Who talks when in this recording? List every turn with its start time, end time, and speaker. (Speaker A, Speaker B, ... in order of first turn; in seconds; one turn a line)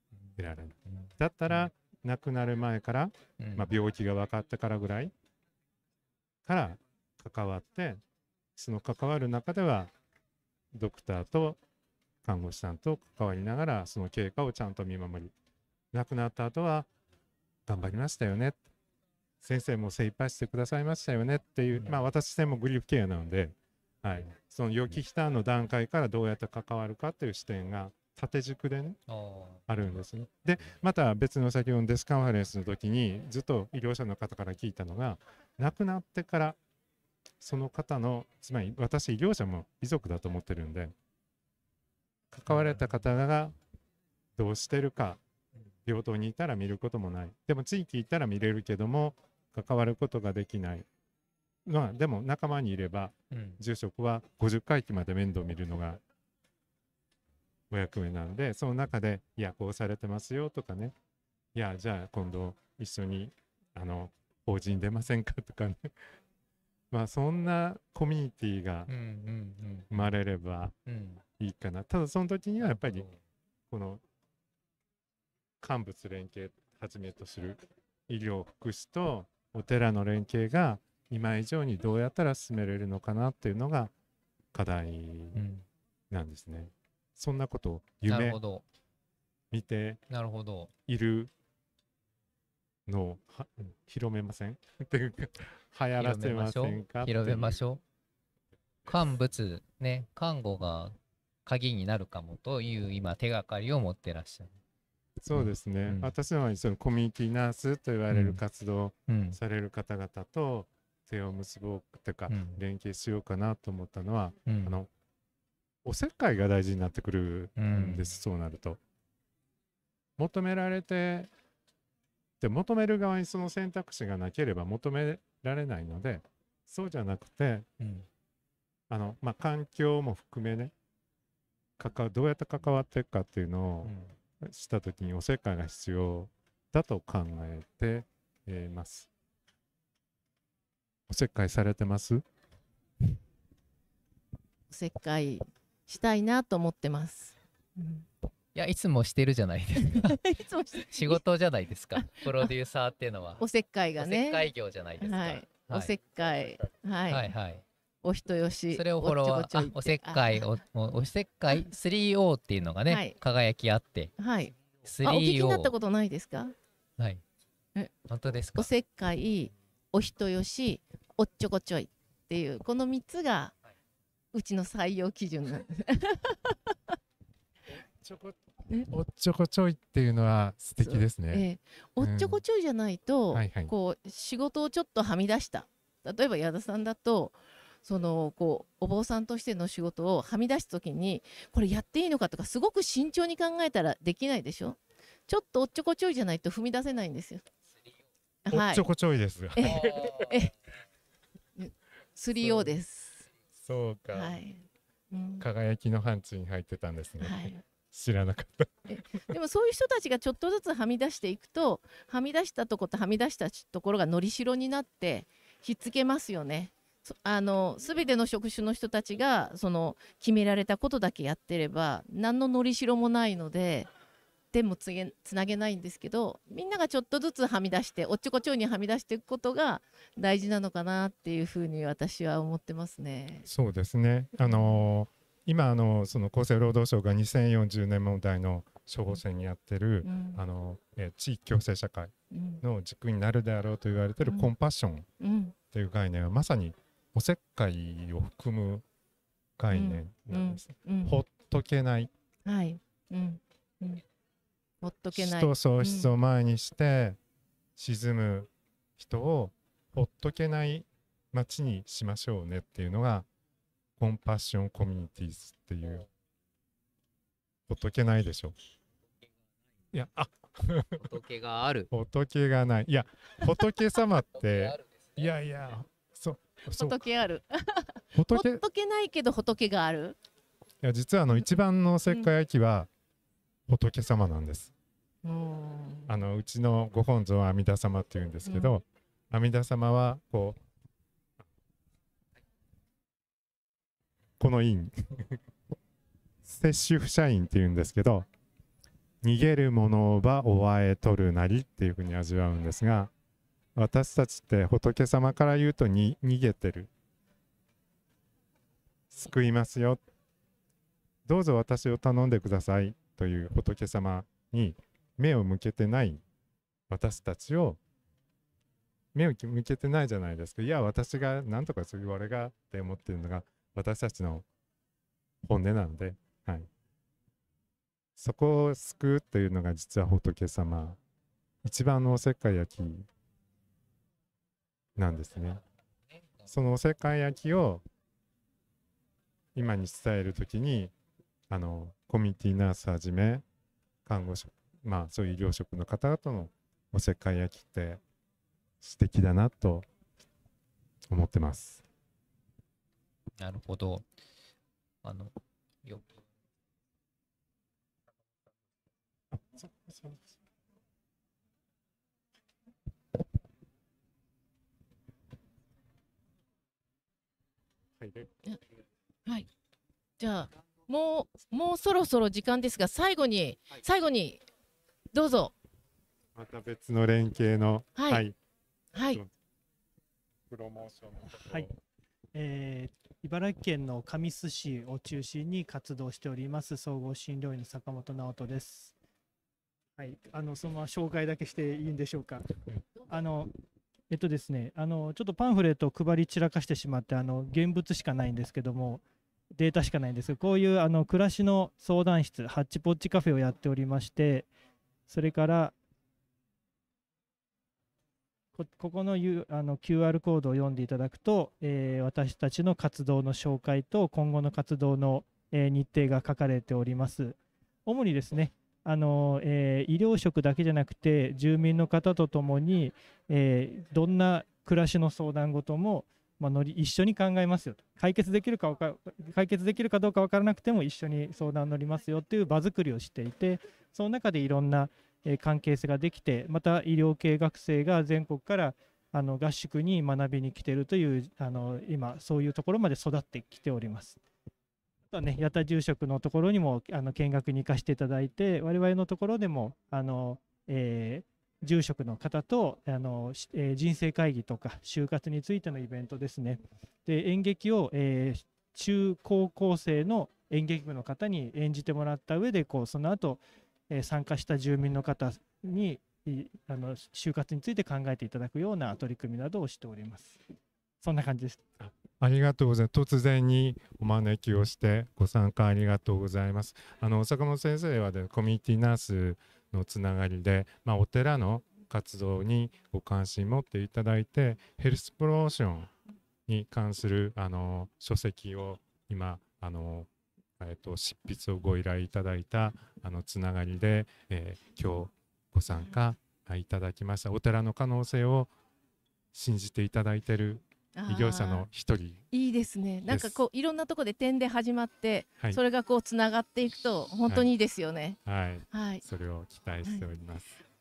Speaker A: 0.4-5.1
Speaker B: 3.4-3.7
Speaker A: 6.5-8.0
Speaker A: 8.6-9.9
Speaker A: 10.7-11.6
Speaker A: 12.2-15.3
Speaker A: 15.9-16.9
Speaker A: 17.7-18.6
Speaker A: 19.4-29.0
Speaker B: 29.1-29.6
Speaker A: 29.7-36.6
Speaker A: 37.4-40.9
Speaker A: 42.3-43.5
Speaker A: 44.4-45.2
Speaker A: 45.9-50.9
Speaker A: 51.6-56.0
Speaker B: 53.3-53.6
Speaker A: 57.7-60.9
Speaker A: 61.5-65.9
Speaker A: 66.9-68.9
Speaker B: 68.9-70.0
Speaker A: 69.9-70.7
Speaker B: 70.8-71.2
Speaker A: 71.4-73.0
Speaker B: 72.6-73.2
Speaker A: 73.7-74.0
Speaker A: 75.6-83.9
Speaker A: 84.5-85.4
Speaker B: 85.3-85.7
Speaker A: 86.1-88.4
Speaker B: 88.1-88.6
Speaker A: 89.5-90.0
Speaker B: 90.1-90.7
Speaker A: 90.9-91.3
Speaker A: 92.8-97.6
Speaker B: 96.0-97.8
Speaker B: 98.8-104.6
Speaker A: 105.2-114.9
Speaker B: 105.3-106.1
Speaker B: 108.1-108.4
Speaker B: 109.1-109.4
Speaker B: 112.3-112.6
Speaker B: 114.5-114.7
Speaker A: 115.8-118.8
Speaker B: 117.6-118.1
Speaker A: 120.2-121.3
Speaker A: 122.4-127.7
Speaker B: 127.8-128.1
Speaker A: 128.9-130.7
Speaker A: 131.8-139.1
Speaker B: 133.8-134.1
Speaker A: 141.1-142.2
Speaker C: 144.7-148.1
Speaker B: 148.5-150.2
Speaker C: 149.8-151.2
Speaker B: 150.9-153.4
Speaker C: 153.4-154.5
Speaker B: 154.0-155.9
Speaker C: 155.0-157.3
Speaker B: 157.1-157.6
Speaker C: 158.0-160.5
Speaker B: 158.7-164.1
Speaker C: 162.9-163.1
Speaker C: 164.2-166.5
Speaker B: 164.8-165.7
Speaker B: 168.1-168.7
Speaker C: 168.6-173.5
Speaker C: 174.3-176.9
Speaker A: 177.8-181.4
Speaker C: 180.8-197.4
Speaker A: 182.0-182.4
Speaker A: 183.3-183.7
Speaker C: 198.5-198.9
Speaker A: 198.5-200.3
Speaker C: 199.5-200.5
Speaker C: 201.6-203.3
Speaker A: 202.4-202.7
Speaker A: 203.5-204.4
Speaker C: 204.1-205.4
Speaker A: 205.4-208.9
Speaker C: 207.2-207.6
Speaker C: 208.9-223.9
Speaker C: 224.5-233.5
Speaker A: 233.5-245.1
Speaker C: 234.5-234.8
Speaker C: 240.0-240.4
Speaker C: 242.3-242.6
Speaker C: 245.2-245.5
Speaker A: 245.7-248.8
Speaker A: 249.6-252.1
Speaker C: 249.7-251.2
Speaker C: 252.4-254.0
Speaker C: 254.8-256.1
Speaker A: 255.1-257.2
Speaker A: 257.8-263.2
Speaker A: 264.0-266.1
Speaker A: 267.7-268.5
Speaker A: 269.9-271.1
Speaker B: 270.9-271.9
Speaker A: 271.9-277.1
Speaker C: 276.7-280.2
Speaker A: 278.1-278.6
Speaker A: 280.8-282.9
Speaker A: 283.7-284.7
Speaker C: 285.2-286.1
Speaker A: 286.1-290.6
Speaker C: 288.4-288.8
Speaker A: 294.4-295.4
Speaker A: 296.4-298.3
Speaker A: 299.2-303.1
Speaker A: 303.7-306.9
Speaker A: 309.1-310.0
Speaker A: 311.2-316.2
Speaker A: 316.9-317.8
Speaker A: 319.1-324.4
Speaker A: 325.4-326.7
Speaker A: 328.2-331.0
Speaker A: 331.6-333.1
Speaker A: 335.0-335.6
Speaker A: 336.4-337.8
Speaker A: 339.5-340.9
Speaker A: 341.5-343.4
Speaker A: 344.1-348.0
Speaker A: 348.8-349.9
Speaker A: 351.1-351.8
Speaker B: 353.4-354.1
Speaker B: 355.0-355.3
Speaker B: 355.8-356.2
Speaker A: 359.3-360.3
Speaker A: 368.0-368.3
Speaker C: 370.2-374.4
Speaker C: 375.1-375.5
Speaker A: 376.3-378.4
Speaker C: 378.0-378.2
Speaker C: 378.9-379.2
Speaker A: 380.5-381.7
Speaker D: 381.3-381.7
Speaker D: 382.3-388.9
Speaker D: 390.0-393.5
Speaker D: 394.1-399.0
Speaker D: 399.5-404.5
Speaker D: 405.1-405.7
Speaker D: 408.5-444.2
Speaker D: 445.1-470.4
Speaker D: 471.0-471.6
Speaker A: 471.8-485.9
Speaker A: 486.5-498.5
Speaker A: 499.3-502.2
Speaker C: 500.9-501.7
Speaker C: 502.3-508.2
Speaker A: 503.1-503.4
Speaker A: 508.2-510.6
Speaker C: 508.7-509.0